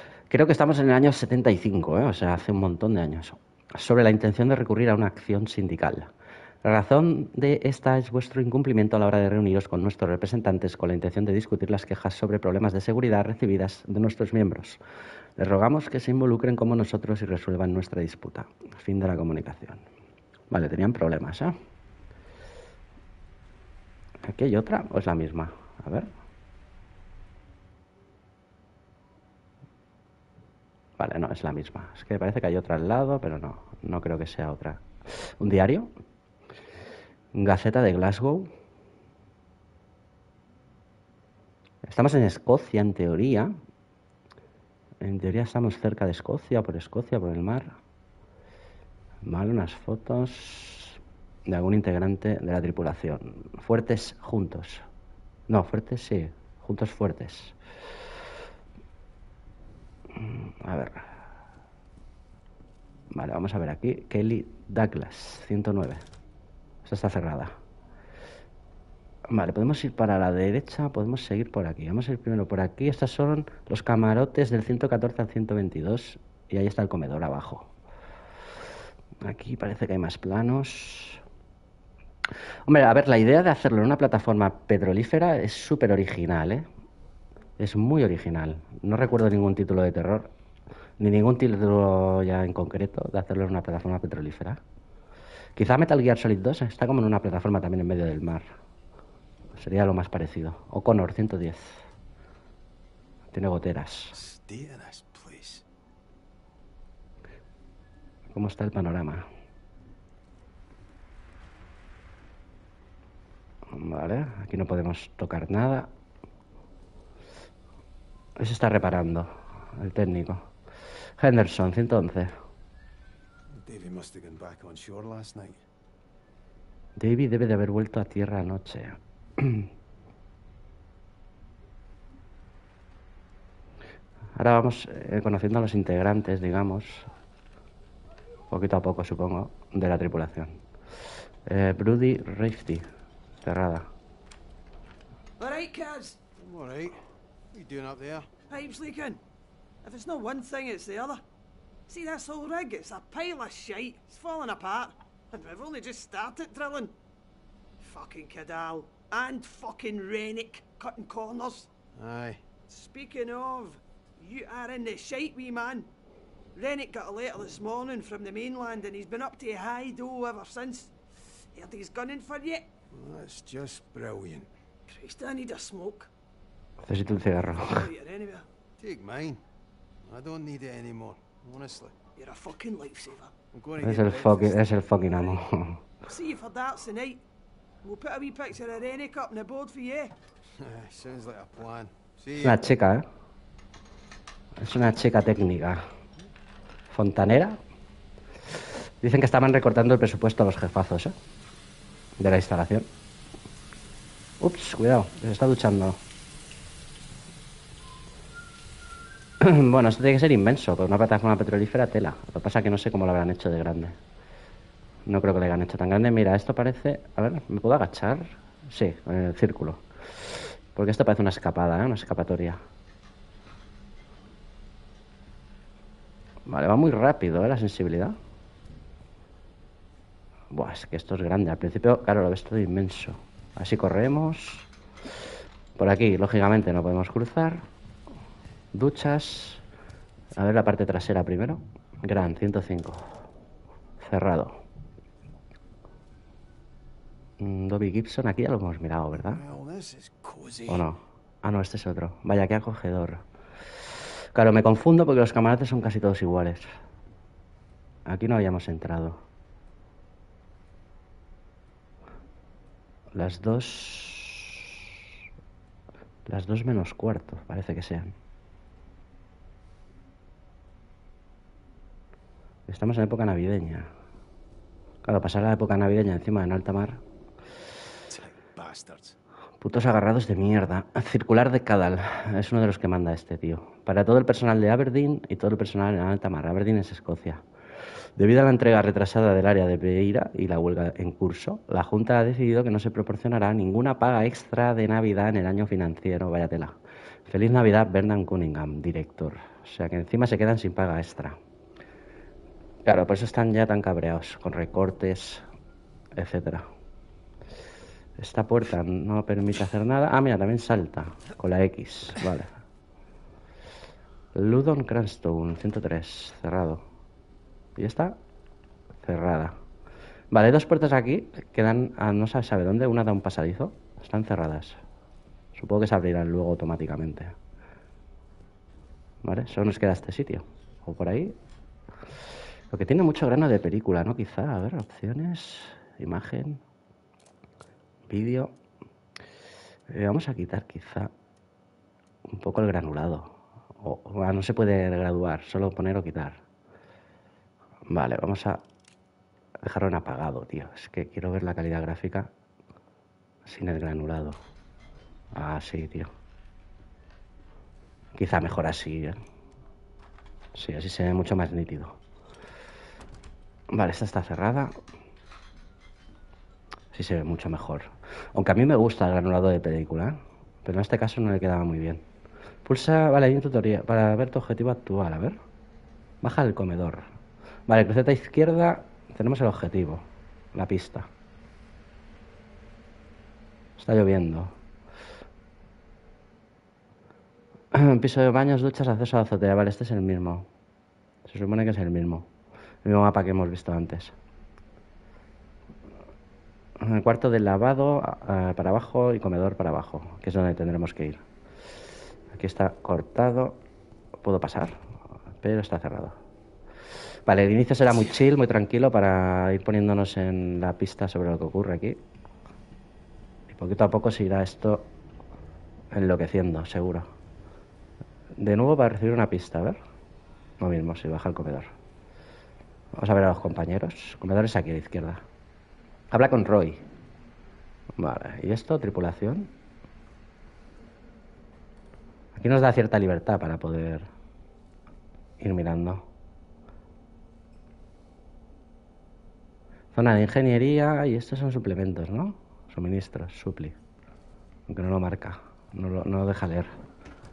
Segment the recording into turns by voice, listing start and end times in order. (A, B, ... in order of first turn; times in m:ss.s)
0:00.3-0:06.1 A
0:06.6-0:14.8 A
0:15.4-0:19.8 A
0:20.5-0:21.6 A
0:24.2-0:26.1 A
0:31.0-0:34.8 A
0:35.4-0:35.9 A
0:37.4-0:38.5 A
0:41.8-0:43.5 A
0:45.0-0:47.7 A
0:49.2-0:54.8 A
0:55.5-0:57.6 A
1:00.2-1:01.1 A
1:03.1-1:06.0 A
1:06.8-1:07.5 A
1:09.3-1:17.7 A
1:19.2-1:21.2 A
1:22.7-1:26.7 A
1:27.6-1:30.3 A
1:31.0-1:34.6 A
1:35.6-1:38.5 A
1:39.6-1:41.7 A
1:43.3-1:44.2 A
1:44.1-1:45.6 B
1:48.3-1:49.2 A
1:53.7-1:55.9 A
1:58.4-2:00.4 A
2:01.2-2:02.3 A
2:03.5-2:05.6 B
2:07.0-2:09.7 A
2:14.4-2:17.1 A
2:18.5-2:20.5 A
2:21.5-2:22.8 A
2:23.4-2:23.9 A
2:25.4-2:26.2 C
2:26.4-2:27.0 B
2:27.5-2:28.3 B
2:28.5-2:29.2 C
2:29.8-2:31.2 C
2:31.9-2:36.9 C
2:37.8-2:41.7 C
2:41.9-2:42.4 B
2:42.7-2:45.9 C
2:46.6-2:51.0 C
2:51.5-2:52.7 C
2:52.9-2:54.5 B
2:54.9-2:56.1 C
2:56.8-2:57.8 A
2:57.5-2:58.5 C
2:58.8-2:59.4 B
3:00.0-3:02.0 B
3:02.2-3:03.3 C
3:03.5-3:04.8 B
3:03.8-3:05.8 A
3:06.1-3:07.2 C
3:07.8-3:10.2 C
3:10.6-3:12.6 B
3:12.4-3:13.1 A
3:14.6-3:15.8 A
3:16.9-3:17.6 A
3:19.0-3:21.1 A
3:22.2-3:22.9 A
3:24.4-3:26.0 A
3:29.4-3:34.0 A
3:35.1-3:39.8 A
3:40.8-3:42.6 A
3:46.5-3:48.2 A
3:50.5-3:54.6 A
3:55.8-3:57.6 A
3:58.7-3:59.6 A
4:00.4-4:03.1 A
4:04.0-4:04.6 A
4:07.4-4:09.4 A
4:09.1-4:10.9 B
4:10.7-4:13.2 A
4:14.3-4:16.7 A
4:18.1-4:19.2 A
4:23.2-4:24.7 A
4:26.3-4:28.1 A
4:32.7-4:33.9 A
4:35.0-4:37.0 A
4:38.1-4:39.2 B
4:39.6-4:47.4 A
4:48.2-4:56.8 A
4:57.3-5:01.4 A
5:02.9-5:05.4 A
5:06.2-5:06.7 A
5:08.2-5:12.5 A
5:14.4-5:16.8 A
5:17.8-5:18.2 A
5:19.0-5:19.5 A
5:20.3-5:24.8 A
5:25.6-5:27.3 A
5:29.2-5:31.4 A
5:32.7-5:36.6 A
5:38.1-5:38.5 A
5:39.9-5:41.1 A
5:42.3-5:46.4 A
5:47.9-5:48.6 A
5:49.6-5:52.3 A
5:53.5-5:54.4 A
5:55.3-5:56.1 A
5:58.2-5:59.2 A
6:00.6-6:02.0 A
6:03.7-6:04.8 A
6:06.9-6:12.0 A
6:12.7-6:15.4 A
6:16.2-6:17.0 A
6:17.7-6:21.1 A
6:23.8-6:24.5 A
6:27.7-6:30.5 A
6:31.3-6:32.3 A
6:32.8-6:34.1 A
6:36.8-6:41.2 A
6:42.3-6:43.6 A
6:44.2-6:44.8 A
6:45.4-6:46.2 A
6:47.3-6:52.0 A
6:53.5-6:54.9 A
6:55.9-6:57.1 A
6:58.4-6:59.8 A
7:00.6-7:01.7 A
7:03.0-7:05.2 A
7:06.1-7:06.8 A
7:08.0-7:09.5 A
7:12.4-7:14.1 A
7:15.4-7:16.1 A
7:19.9-7:23.8 A
7:24.7-7:26.7 A